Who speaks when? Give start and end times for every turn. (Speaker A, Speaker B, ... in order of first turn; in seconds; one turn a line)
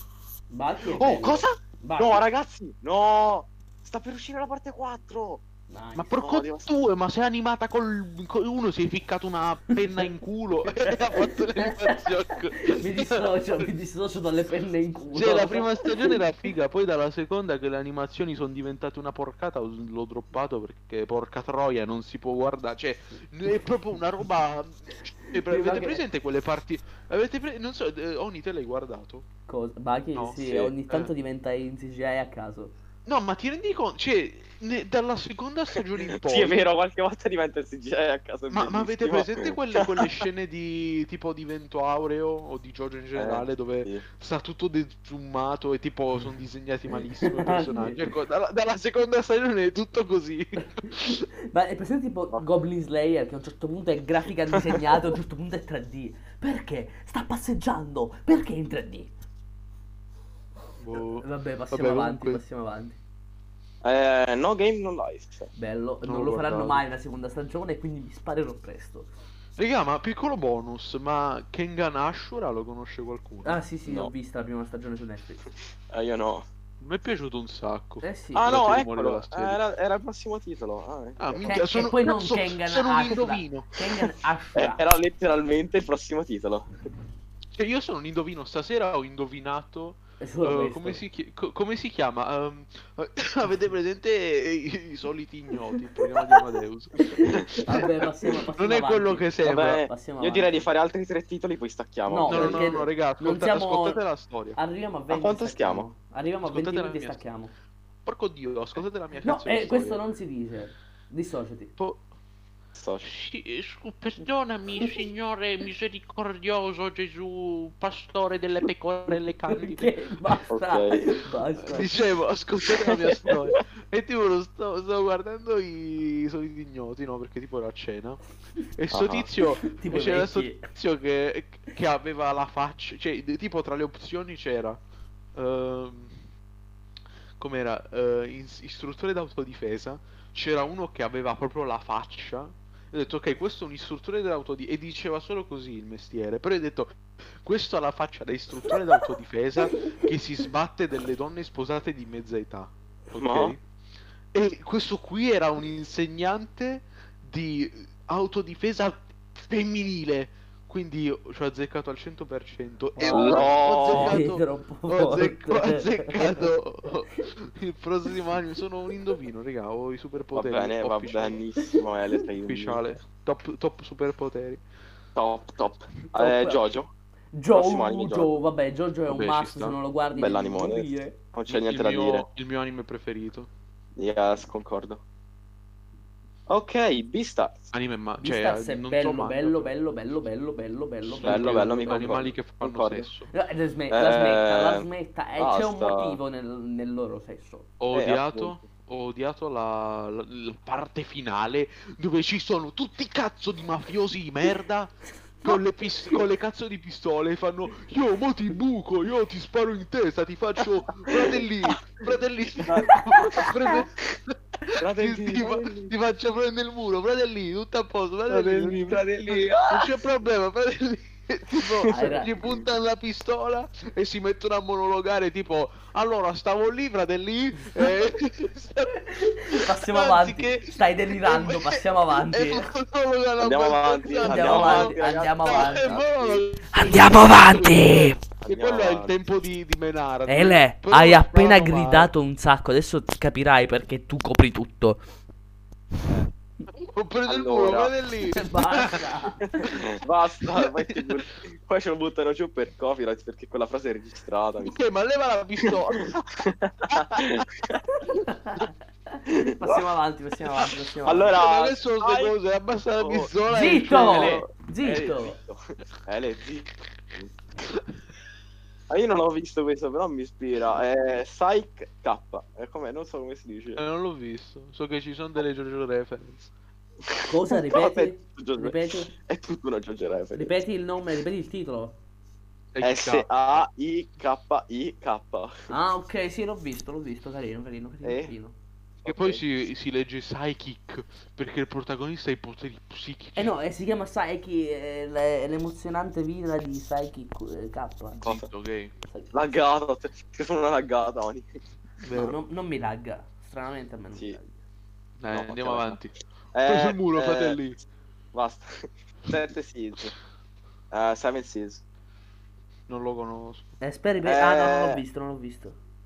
Speaker A: 0.5-2.2
Speaker B: 1.0-5.4
Speaker A: 5.7-6.1
Speaker C: 6.0-13.7
Speaker B: 6.2-6.7
Speaker A: 10.8-16.2
Speaker C: 15.1-29.2
Speaker A: 25.3-26.0
Speaker A: 29.5-32.8
Speaker C: 30.1-31.1
Speaker C: 33.0-36.6
Speaker B: 36.1-40.2
Speaker C: 38.5-51.2
Speaker B: 43.1-44.0
Speaker A: 47.2-48.0
Speaker A: 50.8-59.1
Speaker C: 60.8-62.4
Speaker A: 61.1-63.0
Speaker B: 63.8-65.5
Speaker A: 65.5-69.1
Speaker C: 66.0-66.8
Speaker C: 69.5-73.6
Speaker A: 73.4-75.5
Speaker B: 75.9-76.5
Speaker C: 76.8-79.6
Speaker A: 78.0-78.5
Speaker B: 78.3-81.6
Speaker C: 81.2-83.7
Speaker A: 81.4-84.8
Speaker B: 84.5-86.7
Speaker C: 87.5-97.9
Speaker A: 90.2-91.0
Speaker A: 97.0-100.5
Speaker C: 98.5-99.9
Speaker B: 99.4-102.8
Speaker A: 102.1-104.0
Speaker C: 102.3-104.6
Speaker A: 104.5-107.5
Speaker B: 105.1-105.9
Speaker C: 106.5-107.2
Speaker C: 108.0-110.0
Speaker A: 109.2-111.7
Speaker C: 111.8-112.0
Speaker B: 112.8-113.1
Speaker C: 113.0-120.0
Speaker A: 119.1-122.0
Speaker B: 120.5-121.2
Speaker C: 121.7-128.2
Speaker B: 122.8-123.6
Speaker C: 128.8-134.8
Speaker B: 128.9-129.3
Speaker A: 129.4-130.7
Speaker C: 135.3-136.2
Speaker C: 137.4-153.6
Speaker B: 153.2-153.6
Speaker C: 154.3-171.4
Speaker A: 163.0-166.5
Speaker B: 163.1-164.2
Speaker B: 170.3-172.8
Speaker C: 172.4-174.6
Speaker B: 175.2-176.9
Speaker A: 176.1-176.7
Speaker A: 177.3-181.2
Speaker B: 177.5-178.4
Speaker C: 179.1-179.8
Speaker B: 180.1-182.2
Speaker C: 181.5-183.5
Speaker B: 184.0-185.0
Speaker B: 186.5-187.7
Speaker C: 187.7-189.7
Speaker A: 188.2-192.0
Speaker C: 191.0-193.3
Speaker B: 191.2-193.1
Speaker A: 193.3-197.7
Speaker B: 193.9-194.8
Speaker B: 195.4-196.2
Speaker C: 197.8-242.1
Speaker B: 197.9-198.6
Speaker B: 211.1-211.3
Speaker B: 212.6-212.9
Speaker A: 212.9-213.5
Speaker B: 214.8-215.9
Speaker B: 218.3-220.0
Speaker A: 221.9-222.3
Speaker A: 229.0-232.7
Speaker B: 233.4-236.4
Speaker A: 234.2-236.0
Speaker A: 236.7-238.2
Speaker B: 238.4-239.2
Speaker A: 240.3-245.0
Speaker C: 246.8-249.1
Speaker B: 247.2-247.9
Speaker A: 248.2-249.7
Speaker C: 249.6-249.9
Speaker B: 249.7-254.8
Speaker C: 250.5-251.2
Speaker C: 254.6-257.4
Speaker B: 255.7-257.8
Speaker A: 258.0-261.4
Speaker B: 261.0-262.3
Speaker C: 261.3-264.5
Speaker B: 263.0-267.3
Speaker A: 263.5-265.4
Speaker B: 268.9-273.8
Speaker C: 273.8-276.5
Speaker B: 277.1-280.6
Speaker A: 277.3-279.1
Speaker A: 280.3-282.0
Speaker C: 282.7-283.6
Speaker B: 282.8-285.7
Speaker A: 285.7-288.6
Speaker B: 288.0-288.3
Speaker B: 289.0-289.4
Speaker C: 289.0-293.5
Speaker A: 293.4-298.3
Speaker C: 298.2-298.9
Speaker B: 299.3-301.5
Speaker C: 302.0-302.4
Speaker A: 302.1-304.6
Speaker C: 305.2-306.1
Speaker B: 305.3-306.0
Speaker B: 306.5-307.6
Speaker C: 306.6-307.8
Speaker B: 308.3-310.1
Speaker B: 310.9-311.8
Speaker C: 312.9-313.7
Speaker A: 313.8-315.8
Speaker B: 314.2-315.0